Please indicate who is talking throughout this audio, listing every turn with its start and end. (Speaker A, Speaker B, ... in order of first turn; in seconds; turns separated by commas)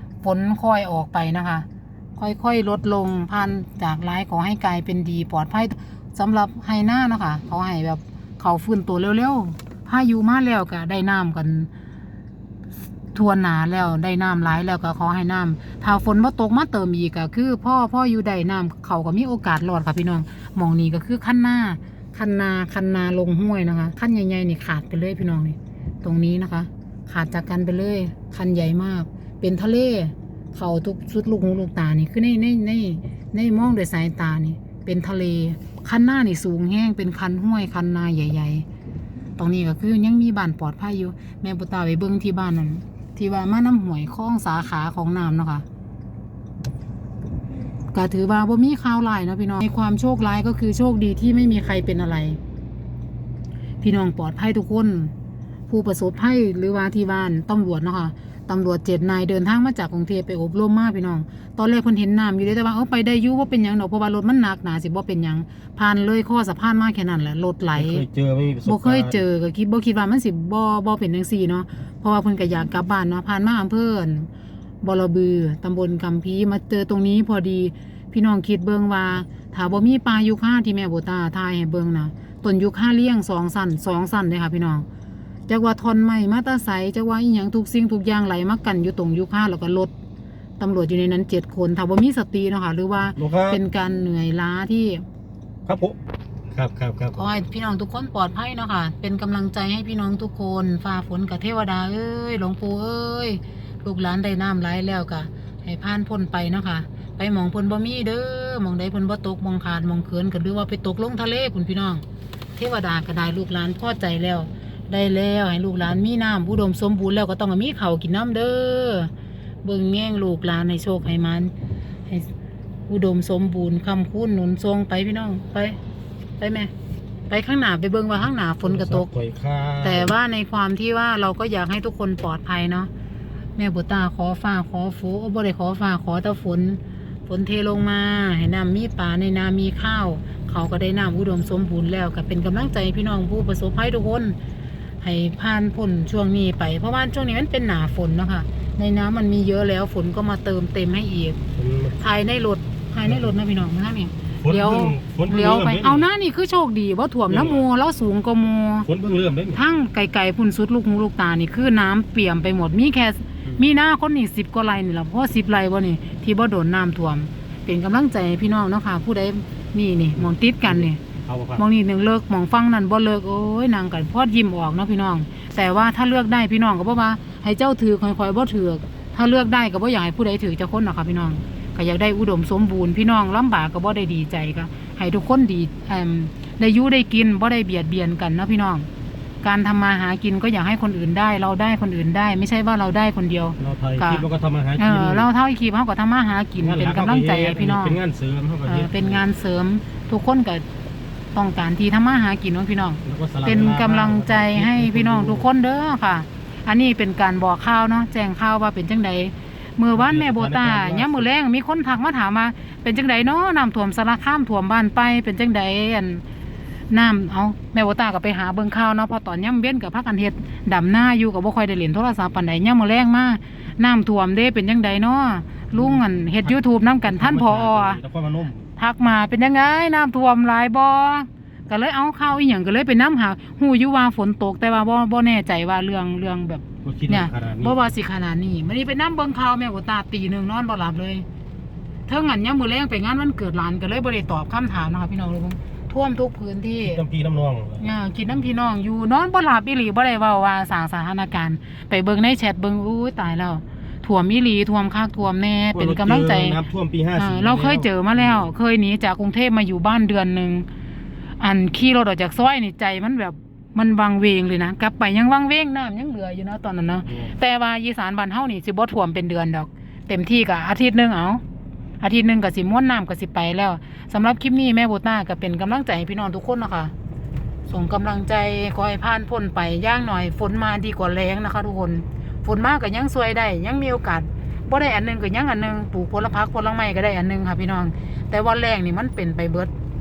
Speaker A: 0.2-11.7, Speaker A: 13.1-38.7, Speaker A: 39.4-45.6, Speaker A: 47.9-52.4, Speaker A: 53.8-55.1, Speaker A: 55.7-68.0, Speaker B: 67.8-69.2, Speaker A: 68.7-74.3, Speaker A: 74.8-84.9, Speaker A: 85.5-89.9, Speaker A: 90.6-95.0, Speaker B: 93.2-93.6, Speaker B: 95.7-96.0, Speaker B: 96.5-97.3, Speaker A: 97.2-112.0, Speaker A: 112.6-119.1, Speaker A: 119.6-121.5, Speaker A: 122.9-125.8, Speaker A: 126.4-126.7, Speaker A: 127.3-129.1, Speaker B: 128.6-130.1, Speaker A: 129.8-132.9, Speaker A: 133.6-144.4, Speaker A: 145.0-151.4, Speaker B: 151.6-152.0, Speaker A: 152.0-158.9, Speaker B: 154.4-156.1, Speaker B: 157.3-157.6, Speaker B: 158.9-159.6, Speaker A: 159.5-171.0, Speaker B: 170.7-171.6, Speaker A: 171.6-188.9, Speaker A: 189.4-194.2, Speaker B: 193.6-195.3, Speaker A: 194.8-198.0, Speaker B: 196.6-199.2, Speaker A: 198.7-200.7, Speaker A: 201.3-216.2, Speaker B: 203.1-205.5, Speaker B: 209.9-211.3, Speaker A: 216.9-228.0, Speaker B: 227.0-228.7, Speaker A: 228.8-241.3, Speaker B: 236.8-237.8, Speaker A: 242.1-247.0, Speaker B: 246.8-247.9, Speaker A: 247.8-256.6, Speaker B: 255.7-258.5, Speaker A: 257.2-260.7, Speaker A: 261.4-271.4, Speaker A: 272.0-276.9, Speaker A: 277.7-289.7